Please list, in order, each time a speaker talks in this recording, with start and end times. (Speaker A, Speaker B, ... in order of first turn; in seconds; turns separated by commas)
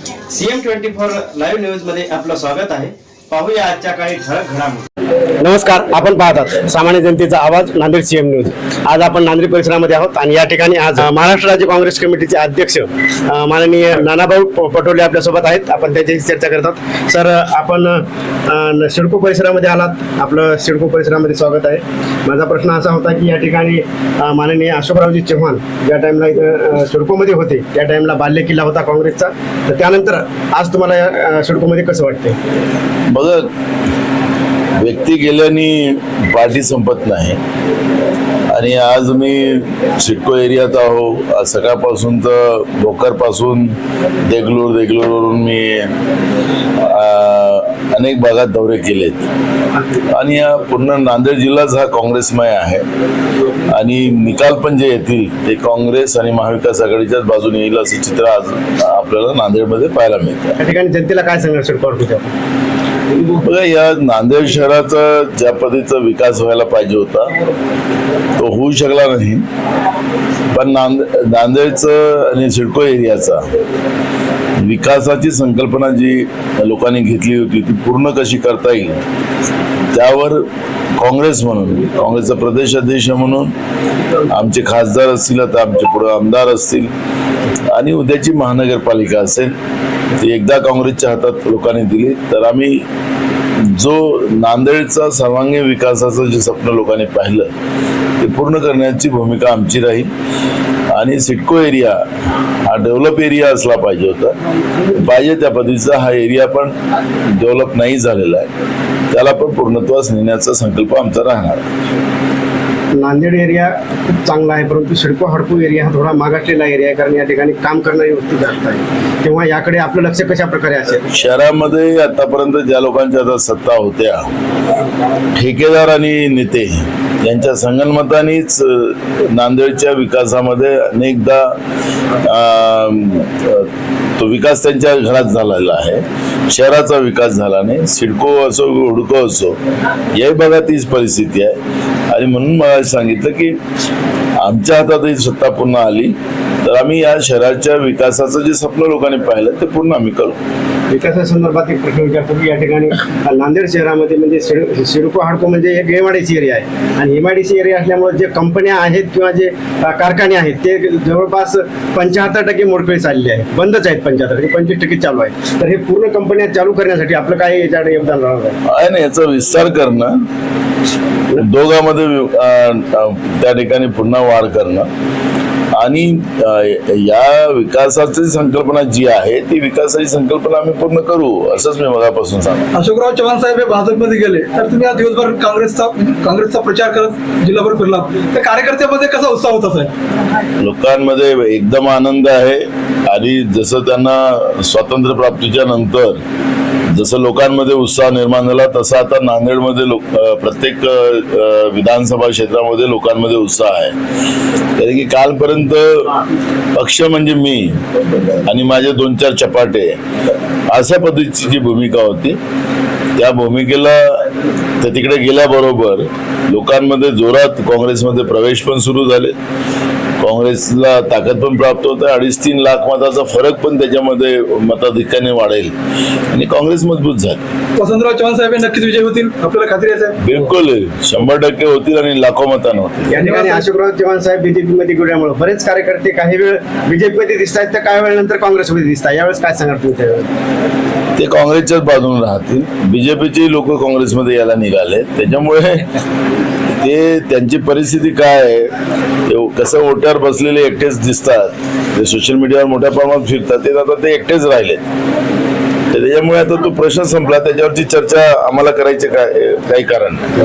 Speaker A: 0.3-4.8, Speaker B: 5.4-32.4, Speaker C: 33.1-33.5, Speaker C: 34.8-37.4, Speaker C: 38.5-46.0, Speaker C: 46.8-49.3, Speaker C: 50.0-52.9, Speaker C: 53.6-60.6, Speaker B: 60.6-62.3, Speaker C: 63.3-67.4, Speaker C: 68.3-69.5, Speaker C: 70.5-73.5, Speaker C: 74.6-79.0, Speaker C: 79.9-80.5, Speaker C: 81.0-83.5, Speaker C: 84.3-86.9, Speaker C: 87.7-89.5, Speaker C: 90.2-92.8, Speaker C: 93.6-97.5, Speaker C: 98.2-100.1, Speaker C: 100.9-106.8, Speaker C: 107.3-108.5, Speaker C: 109.1-111.7, Speaker B: 112.9-121.0, Speaker C: 121.1-124.3, Speaker C: 125.3-131.6, Speaker C: 132.2-139.6, Speaker C: 140.1-141.6, Speaker C: 142.1-143.6, Speaker C: 144.4-150.4, Speaker B: 150.9-168.6, Speaker C: 168.7-170.2, Speaker C: 171.3-174.9, Speaker C: 175.7-182.6, Speaker D: 182.7-189.9, Speaker C: 190.6-196.2, Speaker C: 196.9-203.9, Speaker C: 204.8-206.2, Speaker C: 206.7-210.0, Speaker C: 210.7-212.4, Speaker C: 213.2-219.3, Speaker C: 220.2-225.7, Speaker C: 226.3-227.5, Speaker D: 227.8-230.2, Speaker C: 230.2-233.2, Speaker B: 233.1-240.3, Speaker D: 233.2-233.7, Speaker C: 241.2-245.9, Speaker C: 246.7-248.7, Speaker C: 249.3-254.8, Speaker C: 255.9-260.3